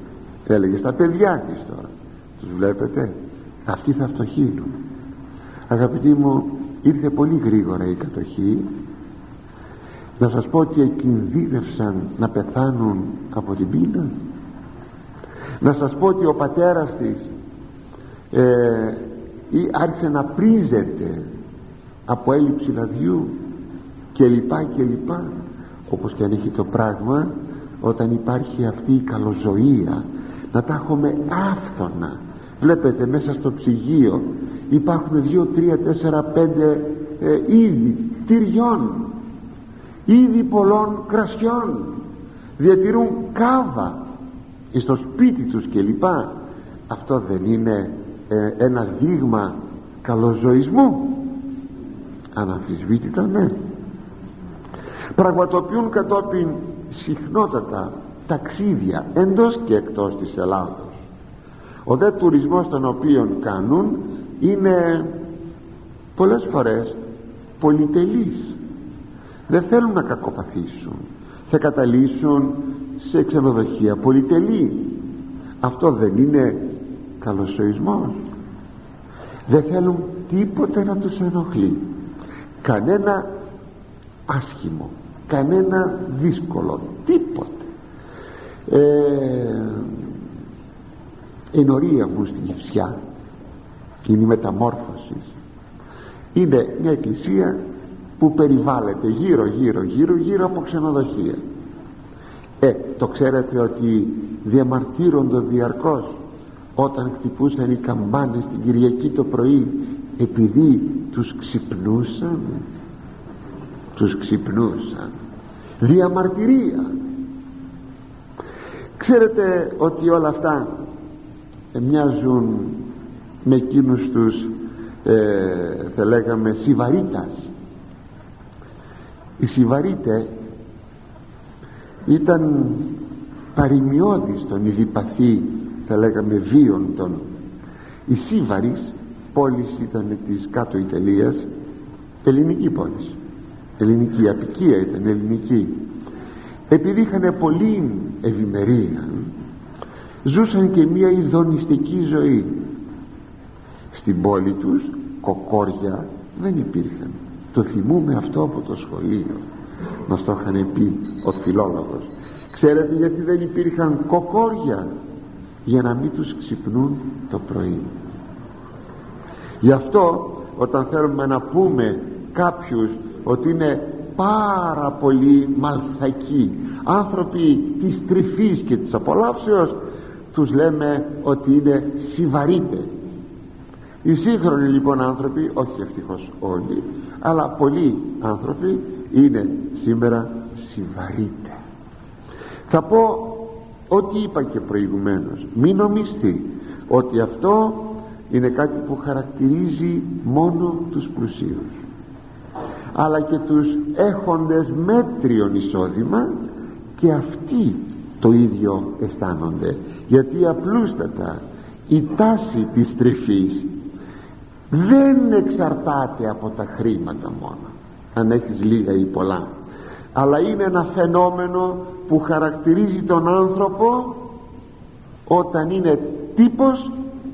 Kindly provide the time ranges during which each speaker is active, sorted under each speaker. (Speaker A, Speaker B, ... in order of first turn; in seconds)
Speaker A: 0.5-4.7, 5.7-8.7, 10.2-14.1, 15.6-17.3, 18.3-21.3, 22.1-23.4, 24.1-25.3, 25.9-39.2, 40.1-42.0, 42.6-44.0, 44.7-46.3, 46.9-51.4, 52.4-53.5, 55.2-61.0, 61.9-65.2, 66.2-67.0, 67.6-68.6, 69.5-75.1, 75.6-78.2, 79.5-81.9, 82.6-83.3, 84.3-87.7, 88.7-90.1, 91.5-93.0, 94.1-95.3, 96.3-97.6, 98.2-101.4, 102.6-106.2, 106.8-112.7, 114.0-115.1, 115.8-116.9, 119.0-120.7, 121.7-122.9, 123.4-127.5, 129.4-130.4, 132.1-133.0, 133.6-137.2, 138.1-141.5, 142.2-143.2, 143.8-145.9, 146.7-149.3, 150.2-152.7, 153.9-159.4, 160.1-164.9, 165.7-167.9, 169.6-179.8, 180.3-182.9, 184.0-191.6, 192.7-201.8, 202.9-206.3, 207.0-213.7, 214.7-219.5, 220.2-224.3, 225.3-227.0